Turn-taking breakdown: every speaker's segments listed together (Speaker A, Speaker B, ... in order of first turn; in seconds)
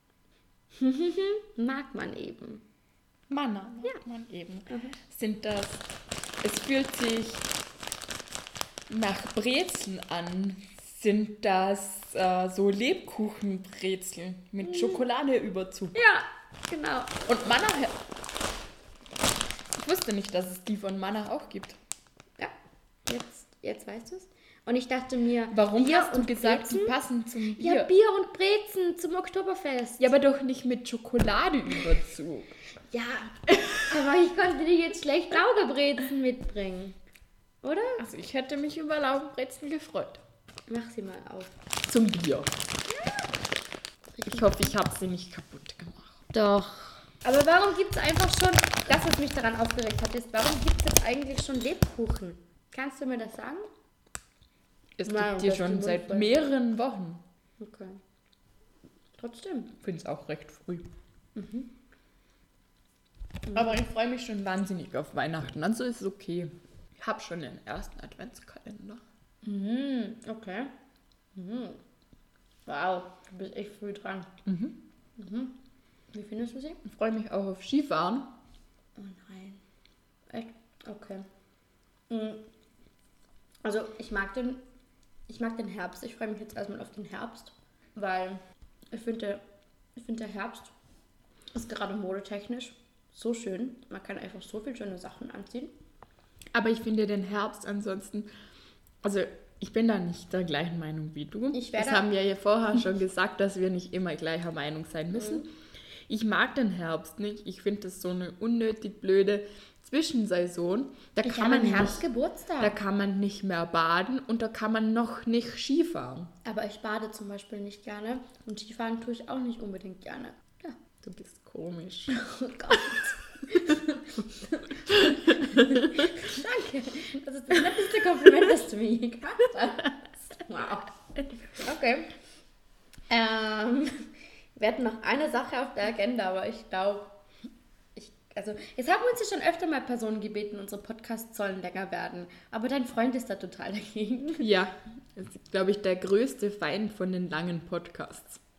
Speaker A: 0.8-2.6, 4.7-5.0, 14.6-15.0, 15.9-17.2, 23.1-27.0, 27.6-30.1, 32.9-37.0, 37.6-38.1, 40.7-41.5, 42.9-43.3, 44.1-44.7, 46.3-53.7, 55.1-56.4, 57.6-58.0, 59.2-59.8, 61.4-61.7, 69.4-70.7, 71.3-71.8, 72.7-74.3, 75.2-75.6, 76.1-76.8, 79.0-79.6, 80.3-81.3, 82.1-82.5, 83.6-84.6, 85.3-89.4, 90.0-90.7, 91.5-95.7, 101.5-102.1, 105.1-105.5, 111.2-112.8, 116.5-120.8, 122.1-130.9, 131.6-132.1, 133.1-134.0, 134.6-137.1, 137.9-144.5
Speaker B: 3.3-5.8, 6.4-7.5, 8.9-16.0, 17.3-18.0, 19.8-21.8, 25.5-27.9, 30.0-32.5, 38.0-40.2, 41.8-42.5, 44.3-46.2, 55.0-57.2, 59.8-60.9, 63.5-69.0, 74.5-74.8, 76.8-78.3, 96.5-98.3, 99.0-105.5, 106.1-112.0, 112.6-116.3, 121.0-122.2, 124.9-126.0, 144.4-148.4